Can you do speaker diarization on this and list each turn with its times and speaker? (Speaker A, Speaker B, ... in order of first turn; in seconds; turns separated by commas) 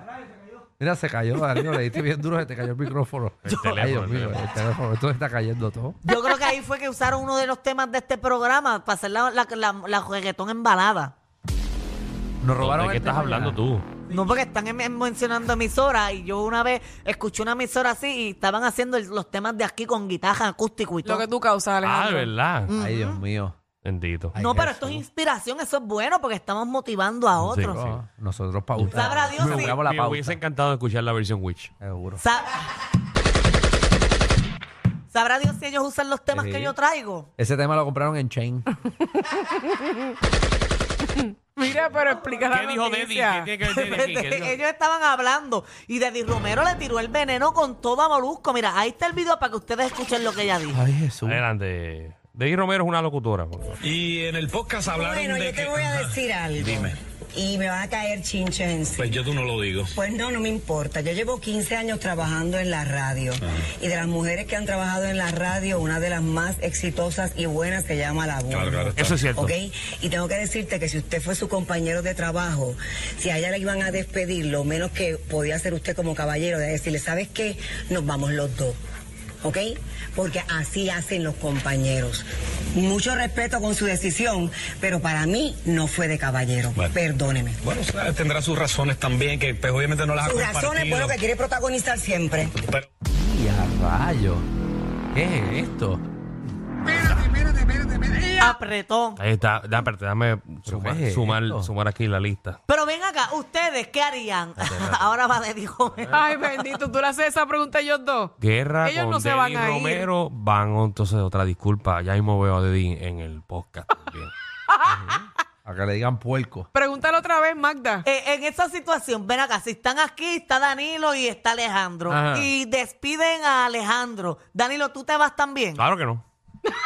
Speaker A: 0.8-6.0, Speaker B: 3.4-4.4, Speaker C: 6.0-11.1, Speaker A: 12.4-13.6, Speaker B: 12.6-13.9, Speaker C: 14.1-21.2, Speaker D: 21.0-22.3, Speaker B: 21.8-22.7, Speaker C: 22.7-23.2, Speaker A: 22.7-23.6, Speaker B: 23.8-24.4, Speaker A: 24.3-25.0, Speaker C: 24.4-27.8, Speaker B: 27.4-28.0, Speaker A: 27.5-30.4, Speaker B: 28.8-31.7, Speaker C: 28.9-29.8, Speaker A: 31.8-32.2, Speaker C: 32.2-32.5, Speaker C: 35.1-37.3, Speaker A: 36.3-36.7, Speaker A: 37.4-38.7, Speaker D: 39.4-39.9, Speaker D: 41.1-43.5, Speaker B: 42.4-44.5, Speaker C: 43.6-50.8, Speaker A: 50.7-51.4, Speaker B: 51.2-53.8, Speaker E: 53.8-56.9, Speaker F: 54.9-59.3, Speaker E: 59.0-59.9, Speaker F: 59.9-78.8, Speaker E: 68.5-69.2, Speaker B: 69.0-69.5, Speaker F: 79.4-87.6, Speaker E: 87.7-91.1, Speaker F: 90.2-92.5, Speaker A: 93.1-94.5, Speaker A: 95.1-96.0, Speaker C: 98.4-99.2, Speaker B: 99.2-102.6, Speaker A: 100.7-101.7, Speaker C: 102.7-106.3, Speaker B: 104.6-105.0, Speaker D: 106.1-110.1, Speaker B: 108.4-114.3, Speaker D: 114.7-115.0, Speaker A: 114.9-116.7, Speaker D: 116.7-118.0, Speaker C: 118.0-125.8, Speaker A: 122.1-122.5, Speaker B: 125.8-126.2